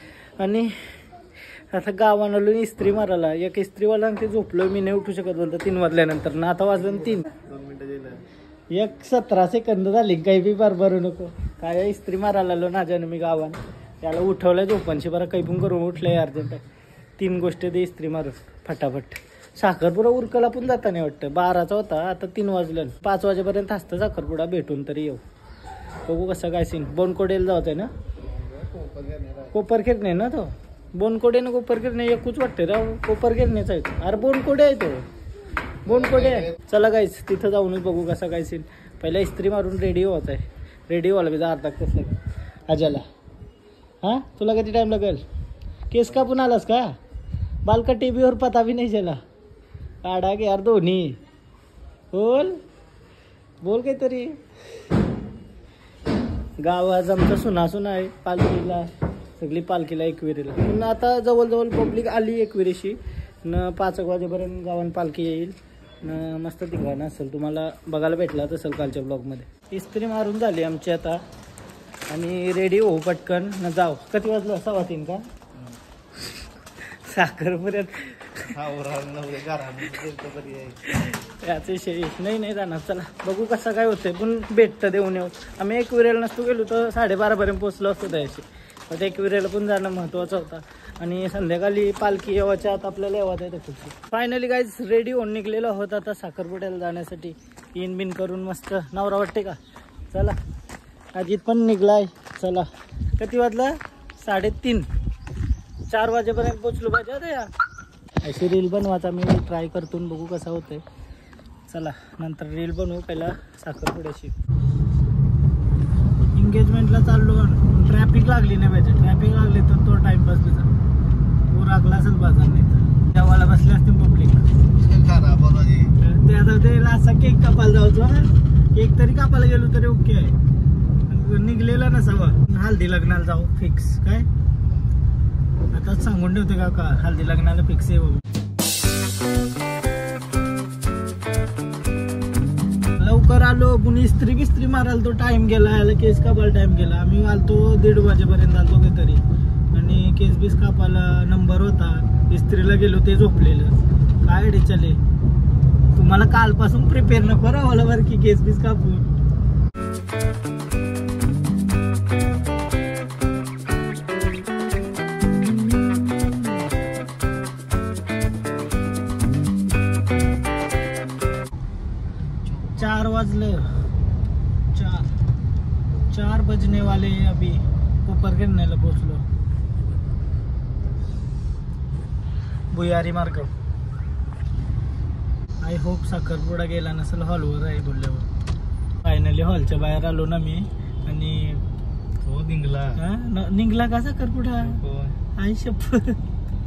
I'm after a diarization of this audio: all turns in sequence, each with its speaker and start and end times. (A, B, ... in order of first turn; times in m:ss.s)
0:00.4-0:00.8 A
0:01.7-0:07.3 A
0:07.3-0:08.2 B
0:08.7-0:16.6 A
0:17.2-0:25.2 A
0:26.0-0:27.9 A
0:28.6-0:29.4 B
0:29.5-0:35.0 A
0:35.8-0:42.2 A
0:36.1-0:36.4 B
0:42.7-0:43.0 A
0:44.0-0:45.2 A
0:45.9-0:47.0 A
0:47.6-0:49.2 A
0:50.0-0:51.2 A
0:52.1-0:52.6 A
0:53.6-0:54.4 A
0:56.6-1:11.2 A
1:12.1-1:15.2 A
1:16.9-1:18.5 A
1:18.5-1:20.8 B
1:20.9-1:39.6 A
1:40.1-1:40.4 A
1:41.1-1:44.9 A
1:45.9-1:47.5 A
1:48.2-1:50.8 A
1:51.7-1:54.4 A
1:56.3-2:00.7 A
2:01.5-2:04.4 A
2:04.7-2:06.0 B
2:06.0-2:10.4 A
2:11.1-2:14.3 A
2:15.7-2:18.2 A
2:23.0-2:35.0 A
2:35.9-2:39.1 A
2:52.4-2:52.8 B
2:52.8-2:53.7 A
2:54.7-2:55.1 A
2:56.1-2:59.2 A
3:02.7-3:03.5 A
3:05.6-3:08.3 A
3:09.0-3:11.6 A
3:12.2-3:13.0 B
3:13.0-3:14.8 A
3:14.6-3:15.2 B
3:15.4-3:16.2 A